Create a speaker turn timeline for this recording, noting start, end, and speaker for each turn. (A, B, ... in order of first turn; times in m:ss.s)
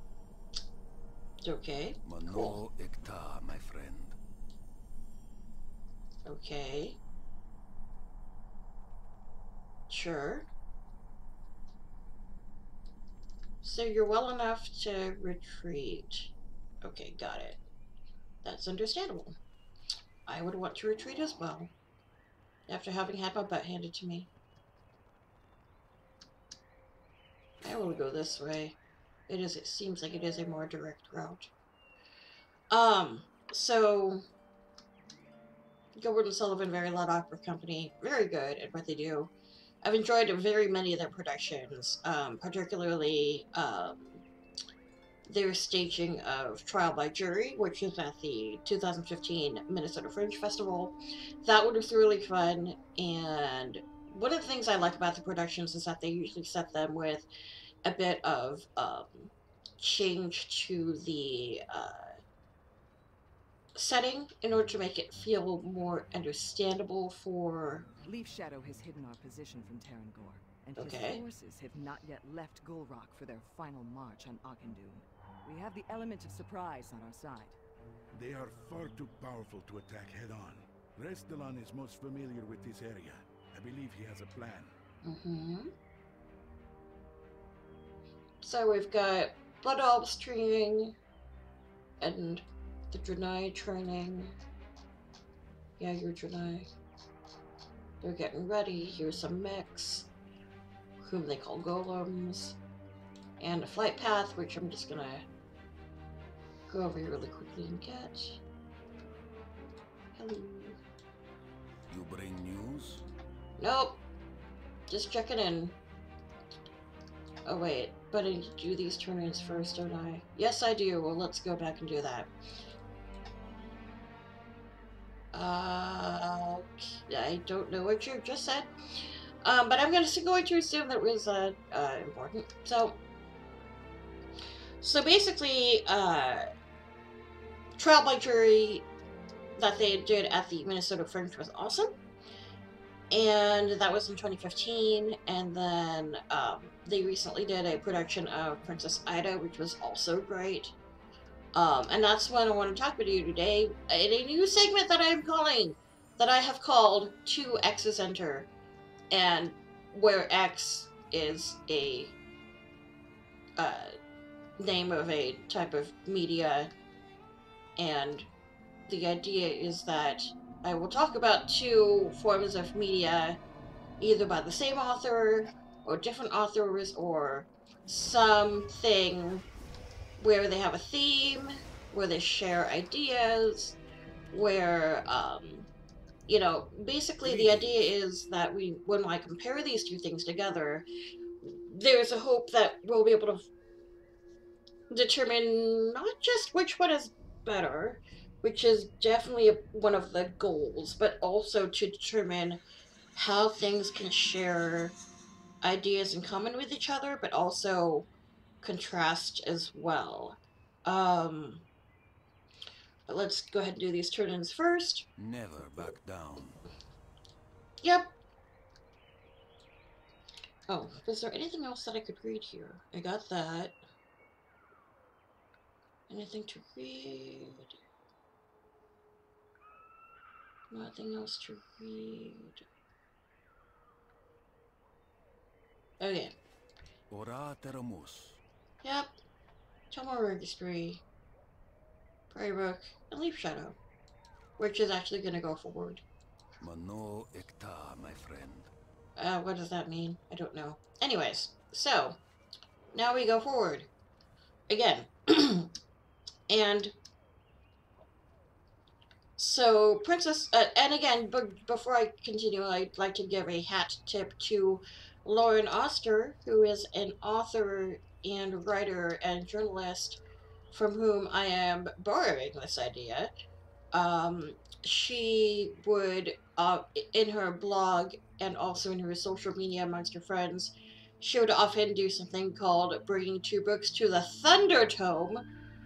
0:01.4-0:02.6 A
0:02.0-0:04.2 B
0:06.2-0:07.0 A
0:09.9-0:10.5 A
0:13.6-0:17.6 A
0:18.4-0:19.4 A
0:20.3-0:21.7 A
0:22.7-0:24.3 A
0:27.6-0:28.8 A
0:29.3-0:31.5 A
0:32.7-0:34.2 A
0:36.0-0:44.2 A
0:45.3-0:57.3 A
0:57.8-1:02.2 A
1:03.7-1:07.9 A
1:08.0-1:17.6 C
1:10.8-1:11.2 A
1:18.1-1:24.7 D
1:25.0-1:25.7 A
1:28.4-1:31.0 A
1:32.0-1:34.3 A
1:35.8-1:36.7 A
1:38.0-1:40.1 A
1:41.0-1:42.6 A
1:43.4-1:45.2 A
1:46.7-1:48.4 A
1:50.2-1:50.8 A
1:51.9-1:53.0 B
1:53.6-1:54.0 A
1:54.9-1:55.8 A
1:57.4-2:02.3 A
2:05.3-2:08.7 A
2:09.4-2:13.0 A
2:14.8-2:16.4 A
2:17.8-2:18.9 A
2:19.6-2:21.9 A
2:23.1-2:30.7 A
2:31.5-2:38.5 A
2:39.1-2:42.2 A
2:43.6-2:43.9 A
2:44.6-2:46.7 A
2:47.8-2:48.3 A
2:48.9-2:53.4 A
2:54.0-2:59.4 A
3:00.2-3:03.8 A
3:04.3-3:05.7 A
3:06.3-3:10.8 A
3:07.2-3:07.8 B
3:11.4-3:13.5 A
3:14.9-3:22.6 A
3:23.1-3:25.0 A
3:25.6-3:28.1 A
3:28.6-3:31.6 A
3:33.1-3:35.1 A
3:35.2-3:36.6 B
3:37.8-3:38.1 A
3:40.7-3:43.8 A
3:46.1-3:47.8 A
3:50.7-3:52.6 A
3:56.0-3:56.3 A
3:57.1-3:58.4 B
3:58.8-3:59.1 A
3:59.9-4:01.0 A
4:02.3-4:03.8 A
4:04.6-4:06.0 A
4:06.6-4:08.7 B
4:09.2-4:12.2 A
4:12.9-4:13.9 A
4:14.7-4:15.7 A
4:16.5-4:16.9 A
4:19.4-4:33.3 A
4:33.9-4:45.4 A